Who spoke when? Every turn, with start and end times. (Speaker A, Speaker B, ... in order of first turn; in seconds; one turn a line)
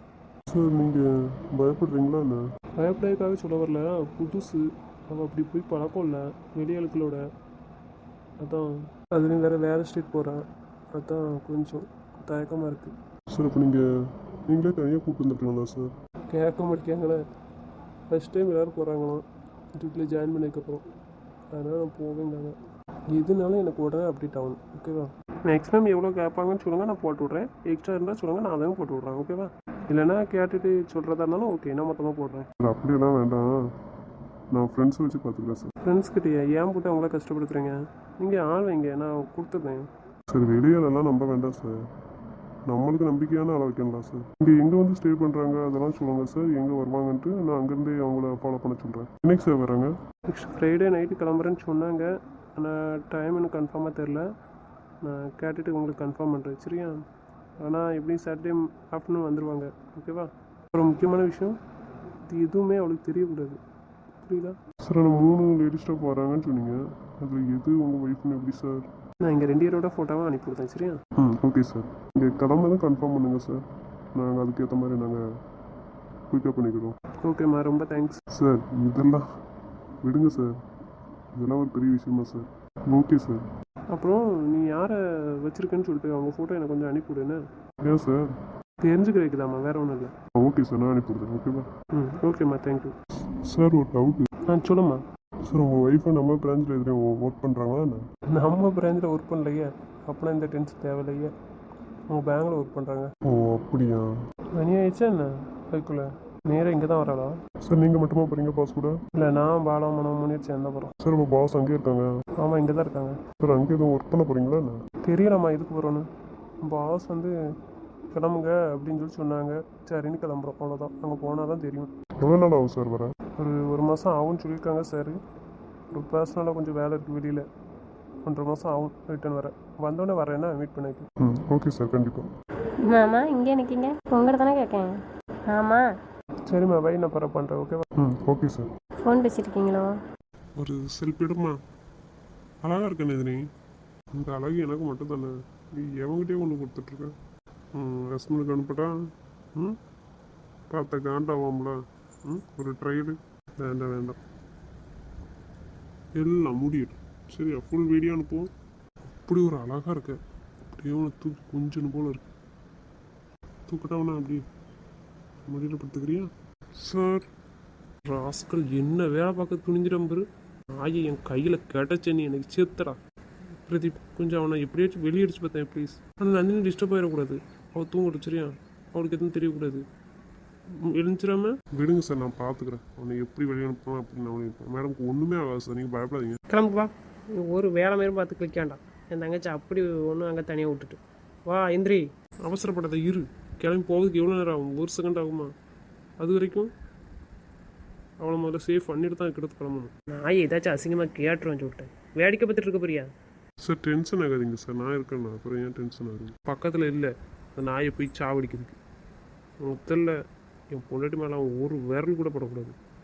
Speaker A: 0.5-2.4
Speaker B: 2.8-7.2
Speaker B: 8.4-10.4
Speaker B: 10.9-12.9
Speaker A: 13.3-13.9
Speaker A: 14.5-15.9
Speaker B: 16.3-17.2
Speaker B: 18.1-19.2
Speaker B: 19.8-20.8
Speaker B: 21.5-22.6
Speaker B: 23.1-32.5
Speaker A: 32.6-33.5
Speaker A: 34.5-35.7
Speaker B: 35.9-39.9
Speaker A: 40.3-41.8
Speaker A: 42.7-49.9
Speaker B: 50.3-54.2
Speaker B: 55.0-57.0
Speaker B: 57.6-61.6
Speaker B: 62.3-63.6
Speaker B: 64.2-64.6
Speaker A: 64.8-68.9
Speaker B: 69.2-71.0
Speaker A: 71.2-73.6
Speaker A: 74.2-75.2
Speaker A: 76.3-77.0
Speaker B: 77.2-78.2
Speaker A: 78.3-79.2
Speaker A: 80.0-80.5
Speaker A: 81.4-83.5
Speaker B: 83.9-87.4
Speaker A: 87.8-88.2
Speaker B: 88.8-90.1
Speaker A: 90.4-91.7
Speaker B: 91.9-92.9
Speaker A: 93.5-94.2
Speaker B: 94.5-95.0
Speaker A: 95.5-98.0
Speaker B: 98.3-101.3
Speaker B: 102.1-103.1
Speaker A: 103.3-104.1
Speaker B: 104.6-107.3
Speaker A: 107.7-109.0
Speaker B: 109.2-110.9
Speaker A: 111.0-112.1
Speaker B: 112.4-113.2
Speaker A: 113.4-114.8
Speaker B: 115.1-116.1
Speaker B: 116.6-117.3
Speaker B: 118.1-121.9
Speaker A: 122.2-123.1
Speaker B: 123.4-125.2
Speaker B: 125.9-127.5
Speaker B: 128.2-131.1
Speaker A: 131.2-132.3
Speaker C: 132.9-134.9
Speaker C: 135.5-135.8
Speaker B: 136.5-137.9
Speaker A: 138.0-138.7
Speaker C: 139.1-139.9
Speaker A: 140.6-141.6
Speaker A: 142.6-143.4
Speaker A: 144.2-147.2
Speaker A: 147.7-148.9
Speaker A: 150.7-154.2
Speaker A: 156.2-158.5
Speaker A: 159.1-160.2
Speaker A: 160.7-162.3
Speaker A: 163.7-164.4
Speaker A: 165.4-167.3
Speaker B: 168.1-170.2
Speaker B: 170.8-173.0
Speaker B: 173.7-179.8
Speaker B: 180.8-181.6
Speaker A: 181.8-186.4
Speaker B: 186.5-195.5
Speaker B: 196.2-196.7
Speaker B: 198.2-203.1
Speaker A: 203.6-206.3
Speaker B: 206.5-208.8
Speaker B: 209.7-210.2
Speaker B: 210.7-212.8